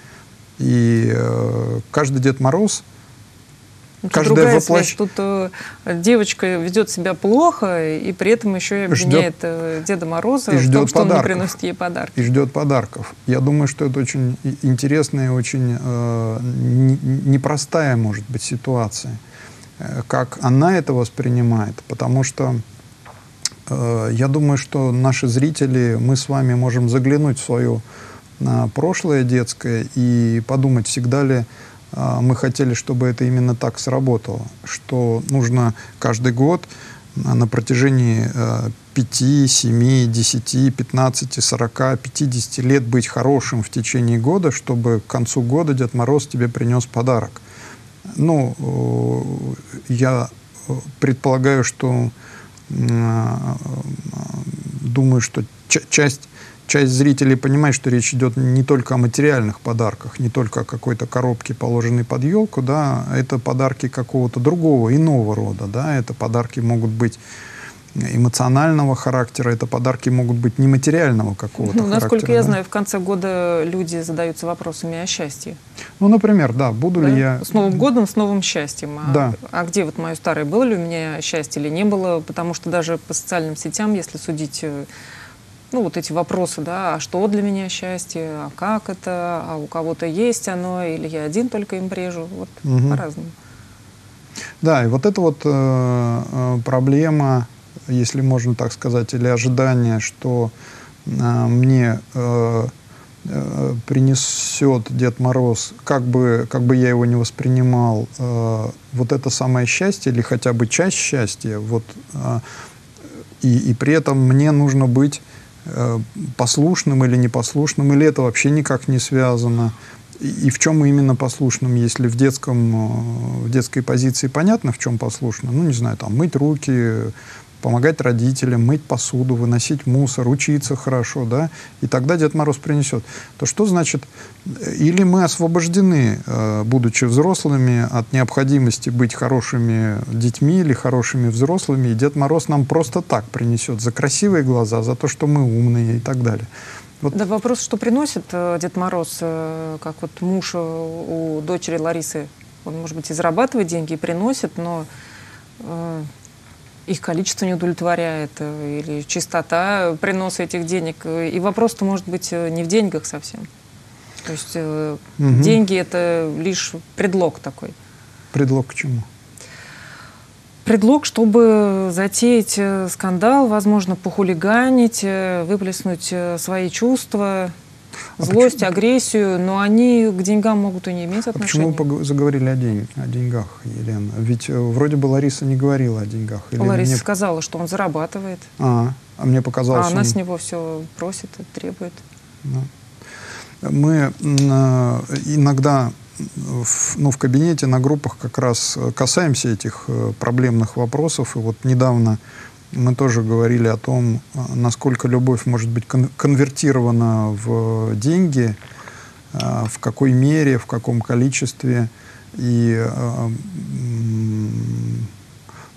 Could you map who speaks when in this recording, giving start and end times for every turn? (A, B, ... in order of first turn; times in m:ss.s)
0:00.6-0:02.8 A
0:04.0-0:12.2 B
0:04.1-0:05.0 A
0:08.9-0:09.3 A
0:10.5-0:11.5 A
0:12.2-0:19.2 A
0:19.8-0:22.6 A
0:23.7-0:27.8 A
0:28.4-0:47.4 A
0:48.1-0:52.1 A
0:52.7-1:07.2 A
1:07.9-1:12.6 A
1:11.6-1:15.6 B
1:16.0-1:17.8 A
1:17.0-1:24.9 B
1:19.0-1:19.4 A
1:25.7-1:33.4 B
1:32.6-1:33.0 A
1:34.6-1:40.5 A
1:41.0-1:42.7 A
1:43.2-1:52.4 A
1:53.4-2:26.5 A
2:27.1-2:34.9 B
2:35.6-2:36.1 B
2:36.9-2:43.5 B
2:44.2-2:47.8 B
2:45.2-2:45.6 A
2:48.3-2:49.1 A
2:50.6-2:57.6 B
2:58.2-2:58.6 A
2:58.2-3:01.8 B
3:01.3-3:07.0 A
3:06.6-3:08.5 B
3:08.6-3:10.2 A
3:09.7-3:12.0 B
3:12.4-3:12.7 A
3:13.6-3:22.2 A
3:22.7-3:28.6 A
3:29.3-3:35.1 A